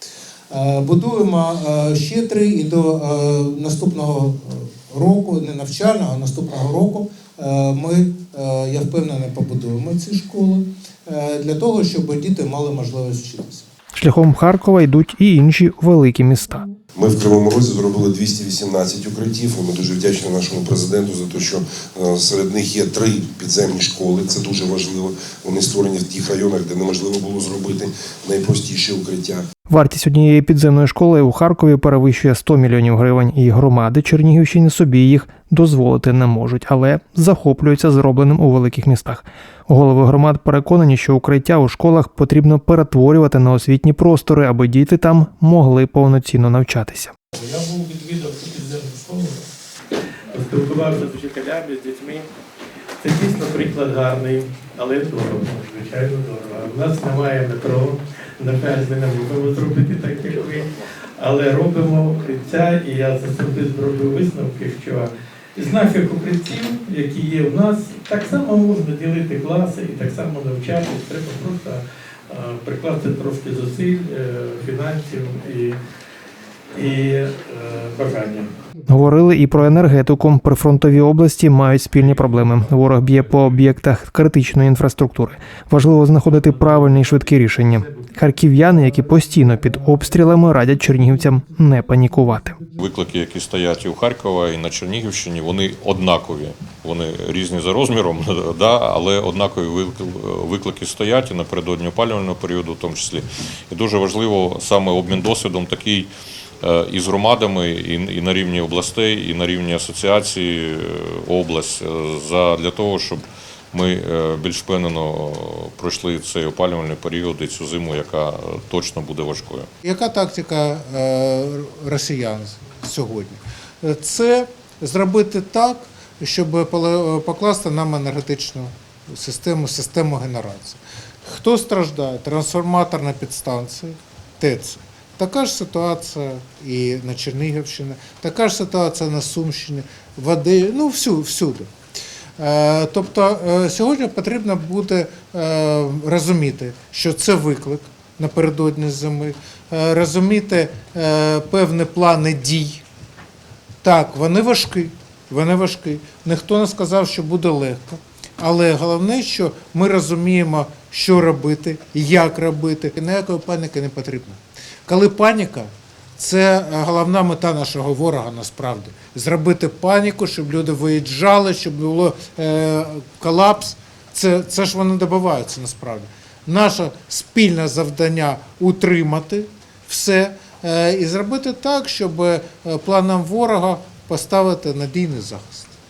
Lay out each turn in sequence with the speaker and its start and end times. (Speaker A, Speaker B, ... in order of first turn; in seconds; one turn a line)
Speaker A: 0.5-13.7
Speaker B: 14.0-16.7
Speaker C: 17.0-29.4
Speaker B: 29.7-47.1
Speaker D: 47.4-49.4
Speaker D: 50.3-52.3
Speaker D: 53.0-75.8
Speaker D: 76.8-78.5
Speaker B: 78.9-92.6
Speaker E: 92.8-106.1
Speaker E: 106.6-119.7
Speaker A: 119.8-141.7
Speaker A: 142.4-152.8
Speaker A: 153.8-185.8